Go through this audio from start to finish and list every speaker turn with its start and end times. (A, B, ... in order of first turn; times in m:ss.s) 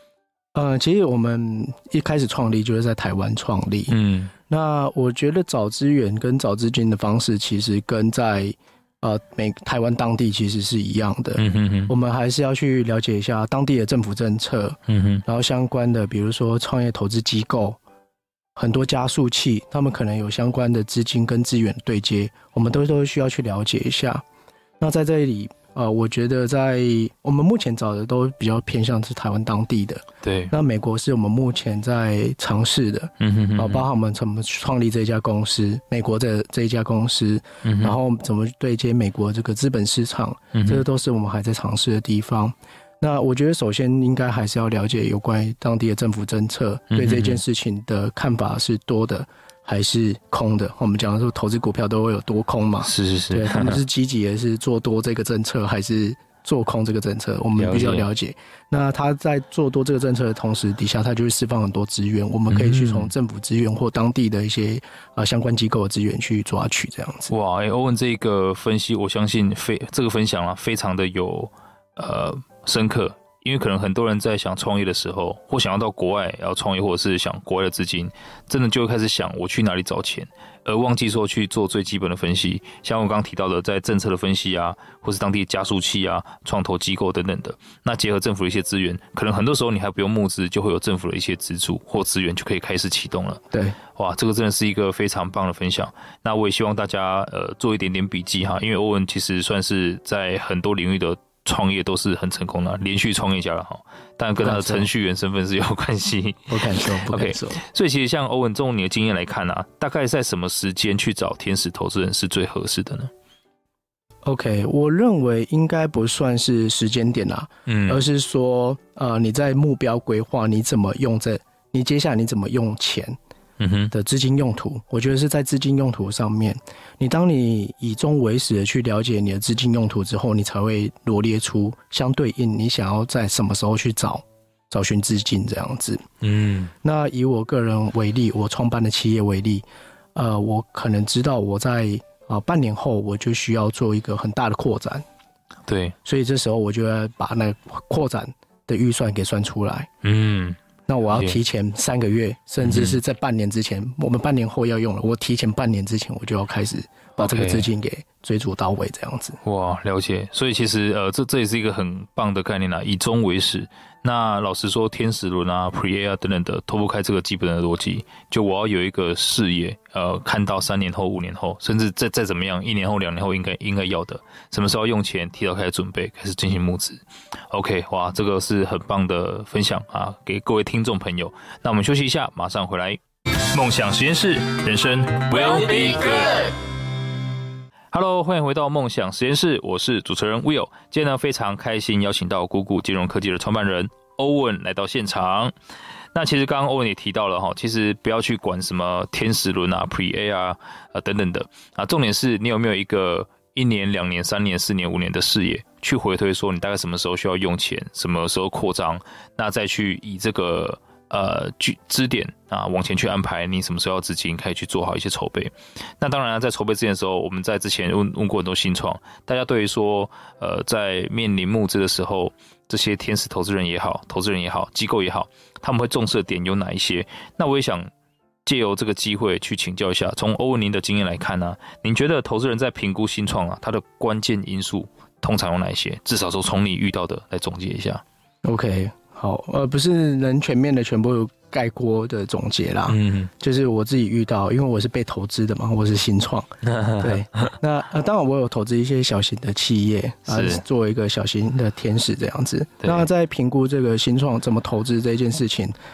0:00.6-0:04.0 A
0:03.9-0:04.3 B
0:04.5-0:17.8 A
0:11.4-0:11.9 B
0:14.9-0:15.2 B
0:18.6-0:24.2 A
0:24.8-1:07.3 A
0:30.2-0:30.5 B
0:33.2-0:33.9 B
0:37.6-0:37.9 B
0:40.5-0:40.8 B
0:46.9-0:47.4 B
0:52.8-0:53.8 B
0:57.6-0:58.1 B
1:02.5-1:03.1 B
1:07.3-1:33.4 B
1:33.5-1:33.8 A
1:34.0-1:46.6 B
1:44.4-1:44.9 A
1:46.5-1:47.6 A
1:47.1-1:53.1 B
1:54.2-2:03.2 A
1:57.7-1:58.0 B
2:03.6-2:03.9 B
2:03.9-2:16.0 A
2:16.2-2:16.7 B
2:16.8-2:25.0 A
2:25.7-2:26.0 B
2:26.0-2:29.9 A
2:30.0-2:30.6 B
2:30.9-2:39.4 A
2:31.1-2:31.4 B
2:32.6-2:33.0 B
2:37.2-2:37.7 B
2:39.4-3:03.0 B
3:03.5-3:06.5 B
3:07.9-3:15.5 B
3:16.1-3:47.9 B
3:48.4-3:58.0 B
3:58.4-4:15.7 A
4:02.9-4:03.3 B
4:06.7-4:07.2 B
4:10.3-4:10.6 B